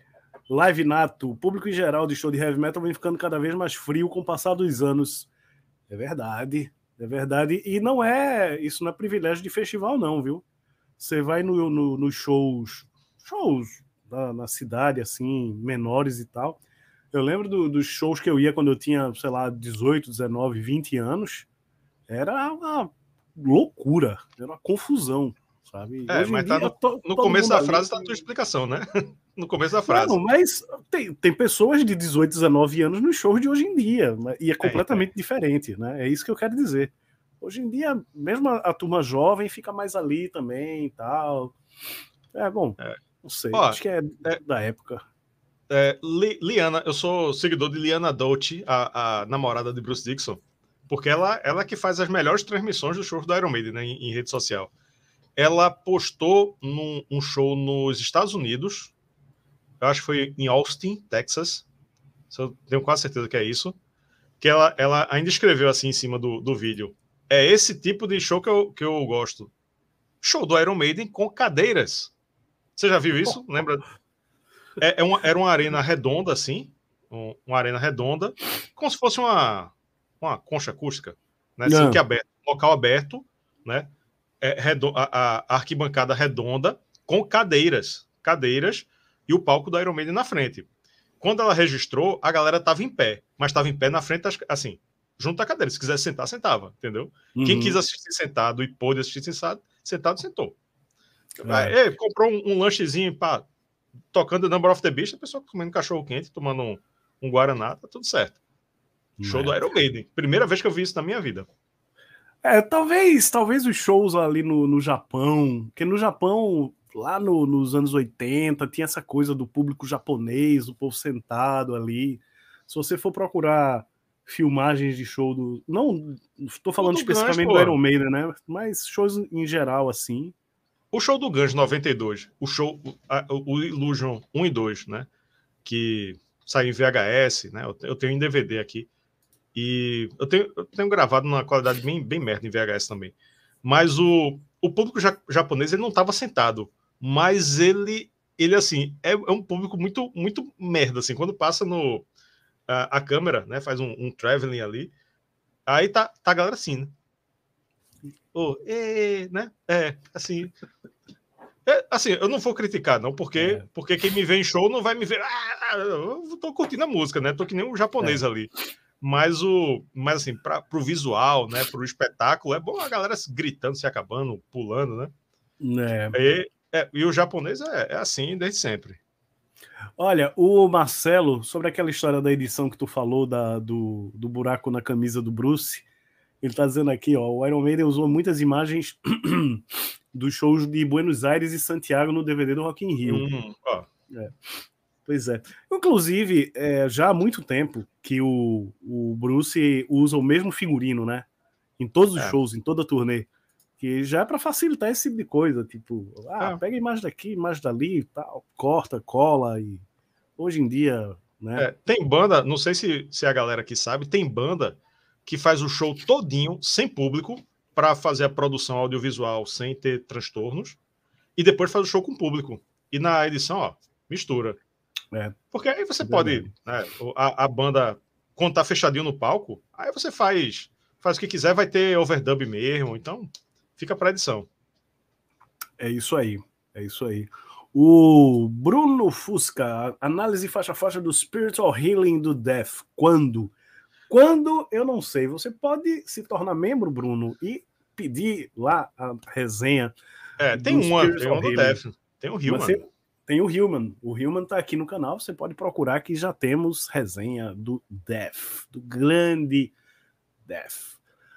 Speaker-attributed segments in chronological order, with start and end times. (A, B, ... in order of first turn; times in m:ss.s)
0:00.5-0:05.3 A
0:05.9-0:10.4 A
0:11.0-0:16.6 A
0:17.1-0:21.5 A
0:22.1-0:27.9 A
0:26.1-0:30.2 B
0:29.9-0:41.6 A
0:34.6-0:35.1 B
0:42.3-0:45.0 A
0:43.5-0:44.4 B
0:45.7-0:54.7 B
0:55.4-0:58.9 B
0:59.8-1:01.6 B
1:02.3-1:03.7 B
1:04.4-1:09.5 B
1:10.2-1:12.1 B
1:12.8-1:13.8 B
1:14.8-1:23.9 B
1:21.6-1:22.0 A
1:24.4-1:30.7 B
1:31.2-1:40.6 B
1:37.4-1:37.8 A
1:41.4-1:41.7 A
1:41.4-1:43.4 B
1:44.1-1:48.4 B
1:49.2-1:49.5 A
1:49.2-1:51.5 B
1:52.4-2:10.3 A
2:06.8-2:07.8 B
2:10.9-2:15.1 B
2:15.6-2:18.9 B
2:19.6-2:32.1 B
2:32.7-2:34.9 B
2:35.7-2:36.9 B
2:38.3-2:40.5 B
2:41.6-2:48.5 B
2:43.4-2:43.6 A
2:49.0-2:55.1 B
2:55.6-2:56.2 A
2:56.1-2:59.0 B
3:00.0-3:05.8 A
3:06.4-3:13.3 A
3:13.0-3:13.9 B
3:15.1-3:21.3 A
3:21.8-3:29.8 A
3:30.4-3:31.7 A
3:31.6-3:40.8 B
3:41.4-3:44.6 B
3:45.5-3:54.5 B
3:46.0-3:46.5 A
3:55.8-4:03.5 A
4:04.1-4:09.9 A
4:10.4-4:12.8 B
4:10.5-4:11.8 A
4:12.5-4:19.7 A
4:20.4-4:21.0 A